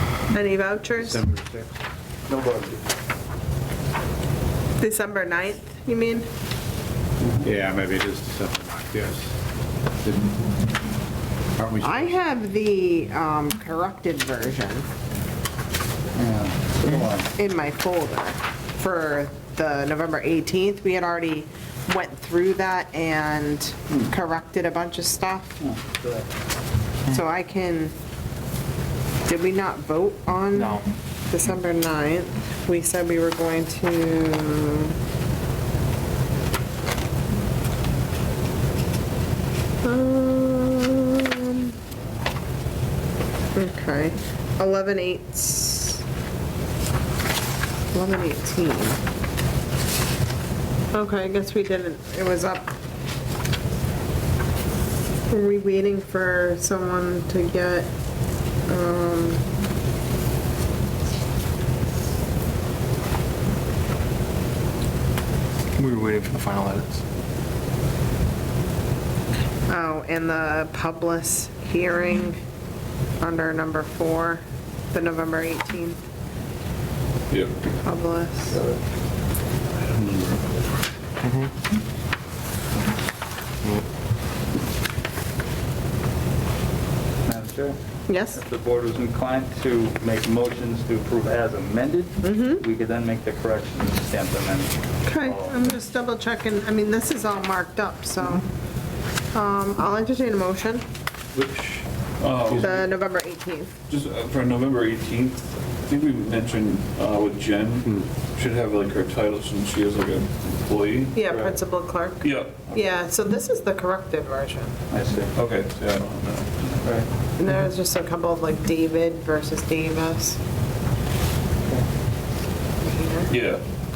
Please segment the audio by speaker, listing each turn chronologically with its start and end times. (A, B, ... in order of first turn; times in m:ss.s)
0:00.3-0:01.2 A
0:01.0-0:01.7 B
0:02.3-0:02.8 C
0:04.8-0:06.3 A
0:07.2-0:07.5 C
0:07.4-0:09.3 B
0:10.0-0:10.3 B
0:11.6-0:12.1 B
0:11.8-0:14.8 A
0:16.2-0:17.3 C
0:17.3-0:25.5 A
0:25.6-0:26.3 C
0:27.1-0:27.9 A
0:29.2-0:34.9 A
0:30.5-0:30.9 D
0:39.8-0:41.7 A
0:43.6-0:46.0 A
0:47.9-0:49.0 A
0:50.9-0:52.7 A
0:55.3-0:57.9 A
0:58.7-0:59.4 A
1:05.8-1:07.0 D
1:09.7-1:12.4 A
1:13.2-1:14.4 A
1:14.9-1:16.0 A
1:17.3-1:17.5 E
1:17.8-1:18.6 A
1:18.5-1:18.8 C
1:21.2-1:21.5 D
1:27.2-1:27.8 C
1:28.1-1:28.4 A
1:28.3-1:35.6 C
1:32.2-1:32.6 A
1:35.0-1:38.4 A
1:39.3-1:40.8 A
1:42.2-1:42.8 E
1:42.5-1:43.7 A
1:43.9-1:51.2 E
1:51.1-1:54.8 A
1:51.2-1:51.5 C
1:52.2-1:52.8 E
1:54.9-1:55.3 C
1:55.3-1:56.6 E
1:56.8-1:57.1 C
1:57.4-2:00.4 A
2:02.8-2:03.3 A
2:03.3-2:03.6 E